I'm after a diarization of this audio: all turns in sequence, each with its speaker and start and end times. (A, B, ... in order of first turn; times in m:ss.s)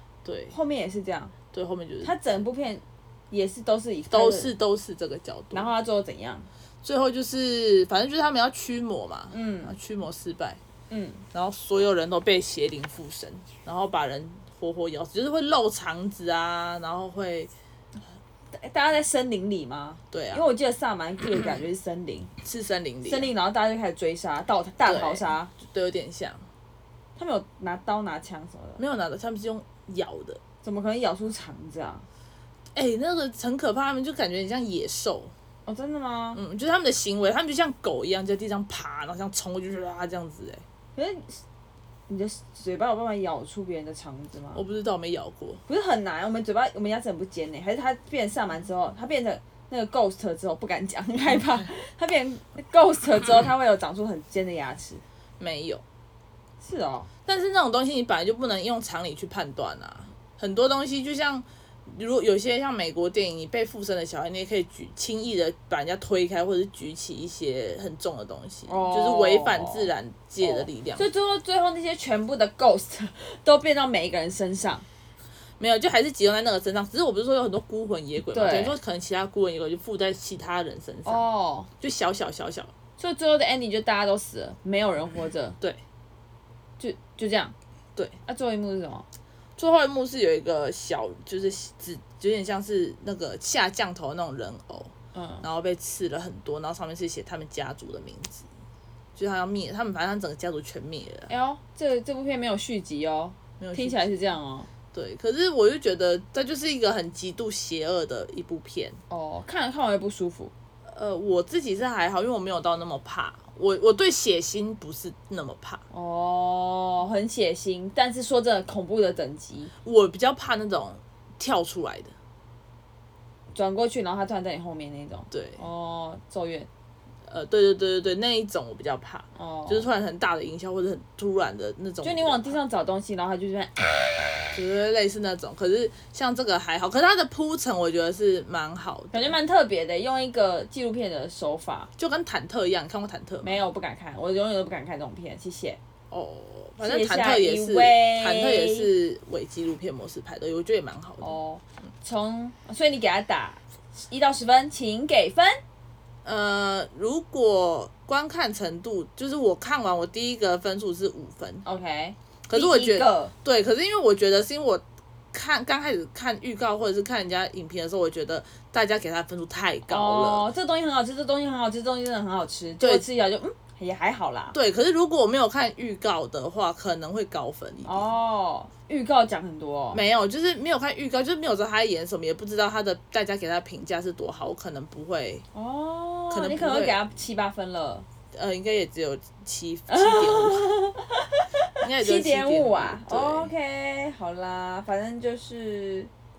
0:00.2-0:00.5 A
0:00.5-0:01.3 B
0:01.5-0:02.3 A
0:02.0-0:04.5 B
0:04.1-0:05.7 A
0:05.5-0:06.5 B
0:06.8-0:10.6 A
0:09.3-0:09.8 B
0:10.9-0:11.2 B
0:11.3-0:17.5 A
0:18.5-0:22.3 B
0:20.1-0:20.5 A
0:22.4-0:23.3 A
0:23.0-0:25.5 B
0:24.8-0:26.5 A
0:27.2-0:28.8 B
0:28.8-0:30.4 A
0:30.6-0:32.0 B
0:32.7-0:35.3 A
0:35.6-0:36.4 B
0:36.3-0:40.6 A
0:41.0-0:41.4 B
0:42.1-0:44.6 B
0:44.5-0:45.6 A
0:45.7-0:55.0 B
0:55.4-0:55.8 A
0:56.6-0:57.1 B
0:57.2-1:11.1 A
1:08.7-1:14.8 B
1:15.6-1:21.2 A
1:18.3-1:18.8 B
1:21.0-1:21.7 B
1:21.8-1:22.7 A
1:23.0-1:25.6 B
1:26.8-1:27.5 B
1:28.2-1:29.0 B
1:29.6-1:38.4 A
1:35.1-1:35.4 B
1:39.2-1:41.3 A
1:41.3-1:44.7 B
1:43.6-1:44.1 A
1:44.9-1:49.0 A
1:49.1-1:50.5 B
1:50.8-1:55.8 A
1:55.9-1:59.7 B
1:59.8-2:02.1 A
2:03.5-2:06.7 B
2:05.3-2:05.6 A
2:07.3-2:12.6 A
2:09.4-2:09.9 B
2:12.0-2:13.9 B
2:14.5-2:19.3 A
2:19.1-2:21.9 B
2:22.0-2:23.6 A
2:23.4-2:25.8 B
2:26.1-2:31.3 A
2:26.8-2:28.9 B
2:31.2-2:35.6 B
2:36.2-2:41.6 A
2:41.6-2:43.3 B
2:42.5-2:50.5 A
2:49.8-2:54.6 B
2:52.8-2:53.0 A
2:54.5-2:58.0 A
2:57.8-3:00.0 B
2:59.9-3:05.4 A
3:05.5-3:08.0 B
3:06.3-3:07.0 A
3:08.3-3:10.7 A
3:09.9-3:16.1 B
3:11.8-3:13.5 A